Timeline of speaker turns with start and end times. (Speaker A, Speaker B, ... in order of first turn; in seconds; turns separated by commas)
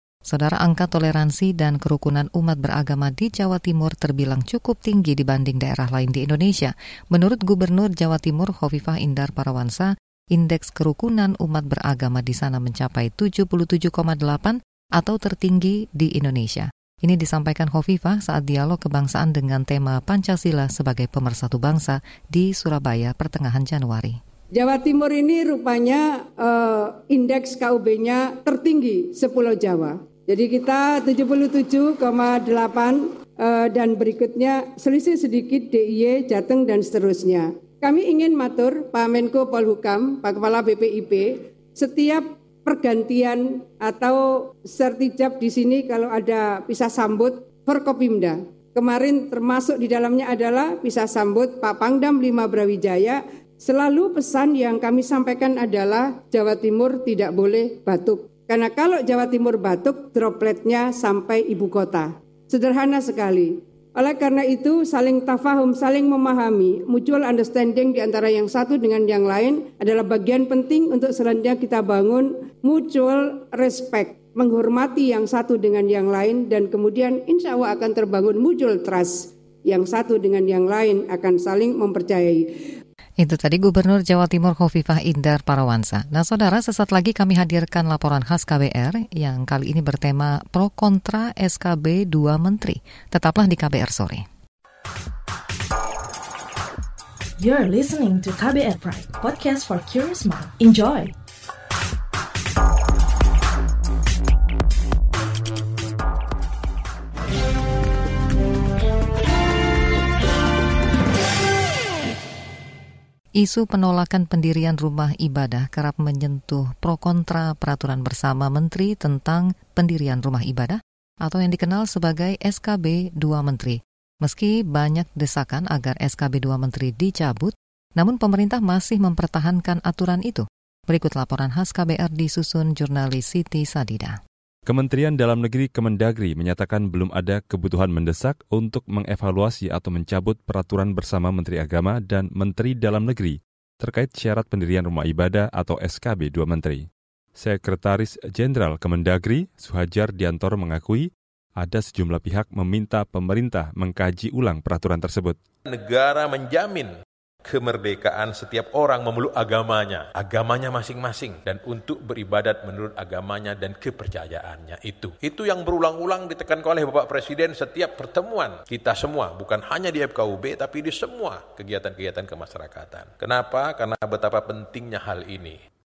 Speaker A: 0.3-24.2, Speaker B: 24.5-82.5, Speaker A: 83.2-94.2, Speaker C: 97.4-101.1, Speaker A: 113.4-134.2, Speaker D: 134.7-146.8, Speaker D: 147.4-151.1, Speaker D: 151.6-155.4, Speaker E: 155.7-156.9, Speaker E: 157.4-175.6